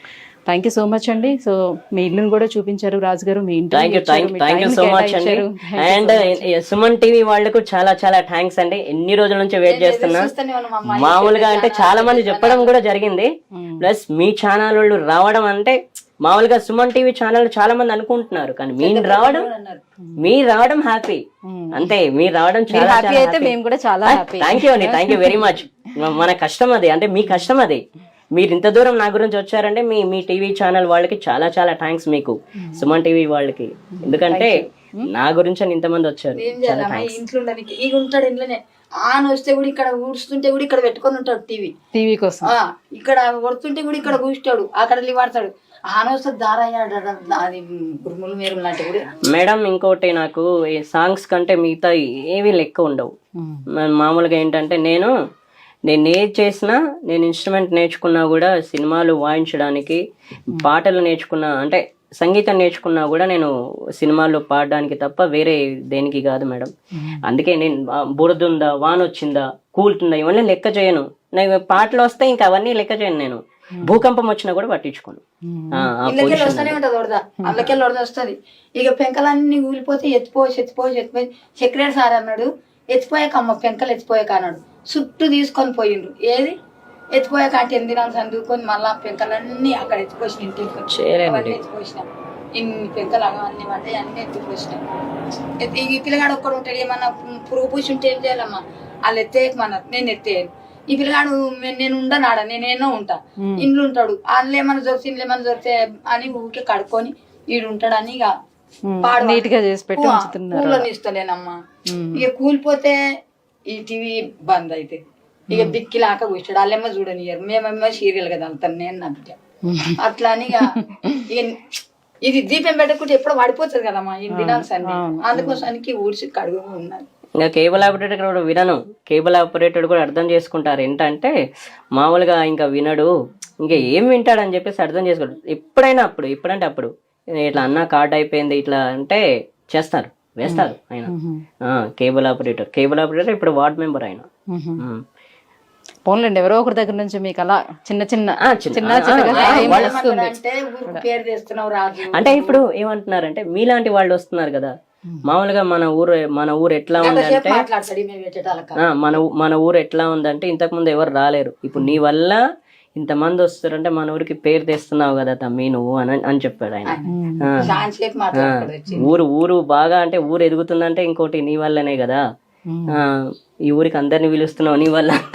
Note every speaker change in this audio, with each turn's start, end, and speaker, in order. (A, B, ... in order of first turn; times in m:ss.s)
0:00.5-0:06.5 A
0:03.7-0:10.3 B
0:09.6-0:12.7 C
0:10.9-0:13.3 B
0:13.6-0:13.9 A
0:13.8-0:19.4 B
0:18.8-0:19.8 C
0:20.2-0:21.2 B
0:21.5-0:21.9 A
0:21.7-0:23.5 B
0:22.7-0:25.6 A
0:24.1-0:27.8 B
0:28.3-0:34.5 B
0:32.6-0:32.9 A
0:34.0-0:35.1 A
0:35.1-0:37.2 B
0:36.3-0:41.7 C
0:41.9-0:42.5 A
0:42.4-0:49.1 C
0:49.3-0:53.1 B
0:53.4-0:53.7 A
0:53.7-0:55.1 B
0:55.9-1:00.0 B
1:00.5-1:06.7 B
1:07.2-1:15.2 B
1:15.5-1:15.9 A
1:15.7-1:16.8 B
1:16.0-1:26.6 C
1:17.4-1:17.7 A
1:27.1-1:32.0 C
1:30.9-1:31.6 B
1:32.6-1:34.8 C
1:35.6-1:48.3 C
1:43.4-1:43.7 A
1:48.9-1:50.9 A
1:49.0-1:51.6 C
1:51.9-1:52.3 A
1:52.1-1:53.0 C
1:53.7-1:55.0 C
1:55.5-1:55.8 A
1:55.5-1:59.4 C
1:59.7-2:00.0 A
2:00.0-2:00.8 C
2:00.6-2:01.3 A
2:01.3-2:01.6 C
2:02.2-2:07.0 C
2:04.3-2:05.7 A
2:07.4-2:11.3 B
2:11.9-2:13.1 B
2:13.6-2:21.1 B
2:20.4-2:21.4 A
2:21.6-2:24.3 B
2:24.5-2:24.8 A
2:26.1-2:30.4 A
2:28.5-2:30.0 B
2:29.3-2:32.6 C
2:32.1-2:34.7 B
2:35.2-2:37.6 B
2:37.0-2:38.8 C
2:38.8-2:42.4 B
2:43.0-2:46.8 B
2:46.8-2:49.1 C
2:47.1-2:47.7 A
2:48.4-2:52.2 B
2:52.7-2:53.0 A
2:52.9-2:55.2 B